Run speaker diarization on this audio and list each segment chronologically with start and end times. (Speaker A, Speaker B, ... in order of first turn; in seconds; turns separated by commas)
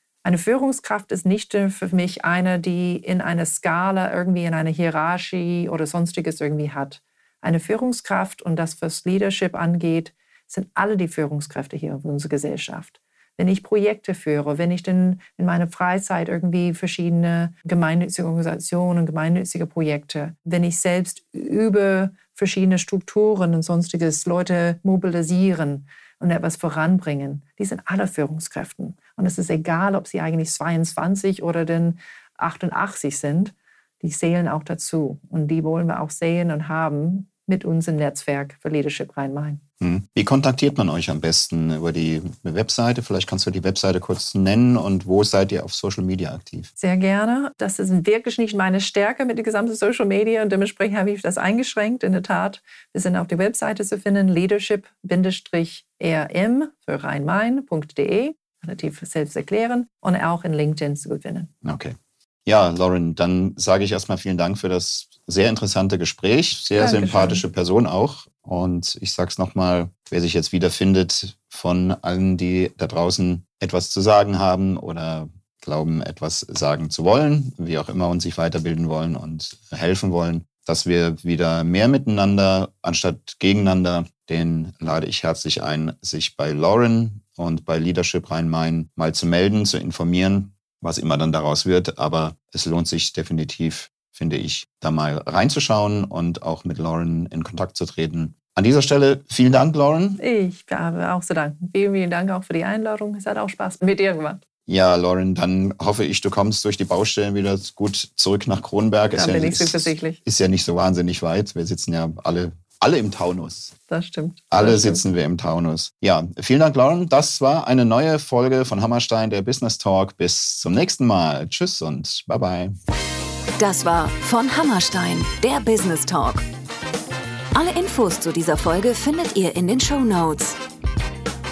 Speaker A: 0.2-39.6, Speaker B: 39.8-46.7, Speaker A: 46.8-61.5, Speaker B: 61.6-100.2, Speaker A: 66.8-67.5, Speaker A: 100.2-104.4, Speaker B: 104.7-113.8, Speaker A: 109.2-110.2, Speaker A: 113.9-115.1, Speaker B: 114.5-122.8, Speaker C: 123.6-126.5, Speaker C: 127.5-130.6